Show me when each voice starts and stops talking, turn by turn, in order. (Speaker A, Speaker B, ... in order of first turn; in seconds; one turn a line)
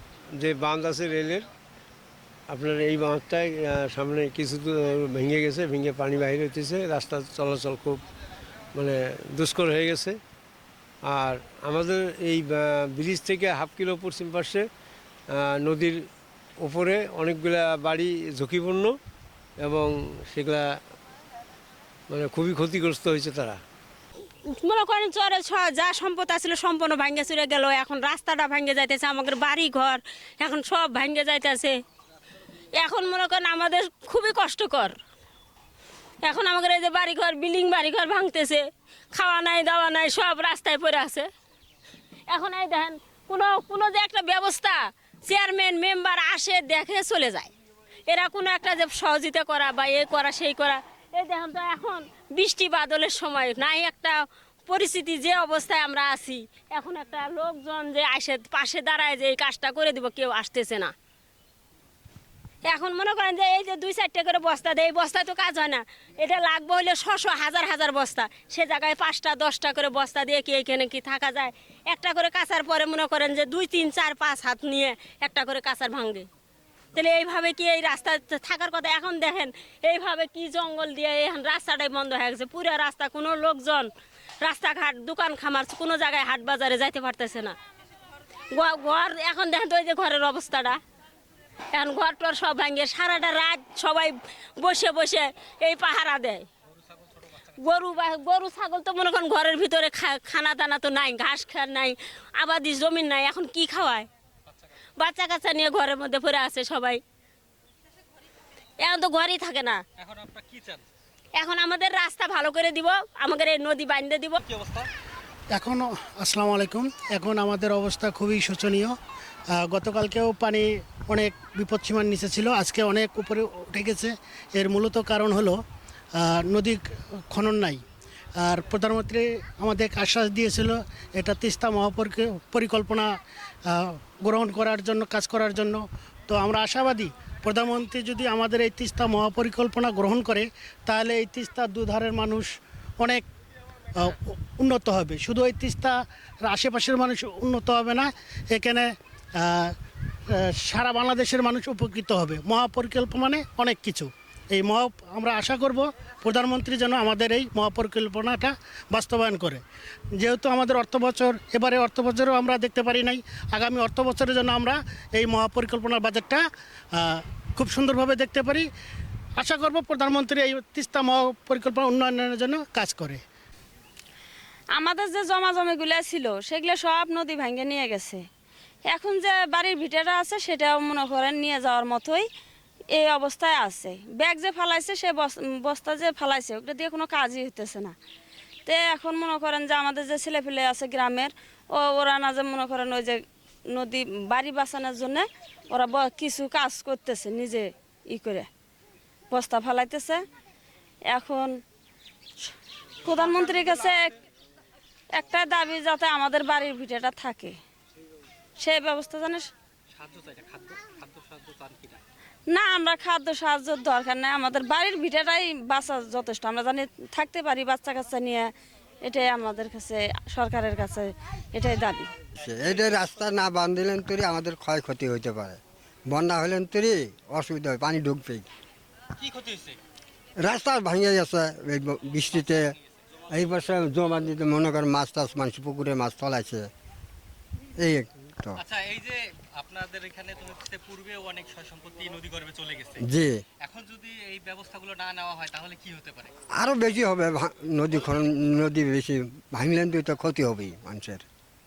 Speaker A: 0.4-1.5
Speaker A: 2.5-8.0
Speaker A: 8.7-10.2
Speaker A: 11.1-14.7
Speaker A: 15.4-16.1
Speaker A: 16.6-18.9
Speaker A: 19.6-20.7
Speaker A: 22.1-23.6
Speaker B: 24.5-31.8
Speaker B: 32.8-35.0
Speaker B: 36.2-41.3
Speaker B: 42.3-47.5
Speaker B: 48.1-60.9
Speaker B: 62.6-76.3
Speaker B: 77.0-83.9
Speaker B: 84.4-87.6
Speaker B: 88.5-90.8
Speaker B: 91.7-96.5
Speaker C: 97.2-97.9
Speaker B: 97.5-104.1
Speaker B: 105.0-107.0
Speaker B: 108.8-109.8
Speaker C: 110.0-110.8
Speaker B: 111.4-114.4
Speaker C: 114.5-114.9
Speaker D: 115.5-119.0
Speaker D: 119.5-125.6
Speaker D: 126.2-127.8
Speaker D: 128.4-133.1
Speaker D: 133.7-143.2
Speaker D: 144.0-149.7
Speaker D: 150.4-159.6
Speaker D: 160.2-166.4
Speaker D: 166.9-168.7
Speaker D: 169.4-173.2
Speaker E: 174.7-178.3
Speaker E: 178.9-182.3
Speaker E: 182.9-187.9
Speaker E: 188.7-198.5
Speaker E: 199.3-200.2
Speaker E: 201.1-201.6
Speaker E: 203.0-204.1
Speaker E: 205.1-207.6
Speaker E: 208.6-209.5
Speaker C: 210.0-212.0
Speaker E: 212.5-222.1
Speaker F: 222.4-228.5
Speaker C: 229.2-229.8
Speaker F: 230.4-232.8
Speaker F: 233.3-236.7
Speaker F: 237.8-238.6
Speaker C: 238.6-243.0
Speaker F: 243.0-243.4
Speaker C: 243.6-246.3
Speaker F: 246.6-251.2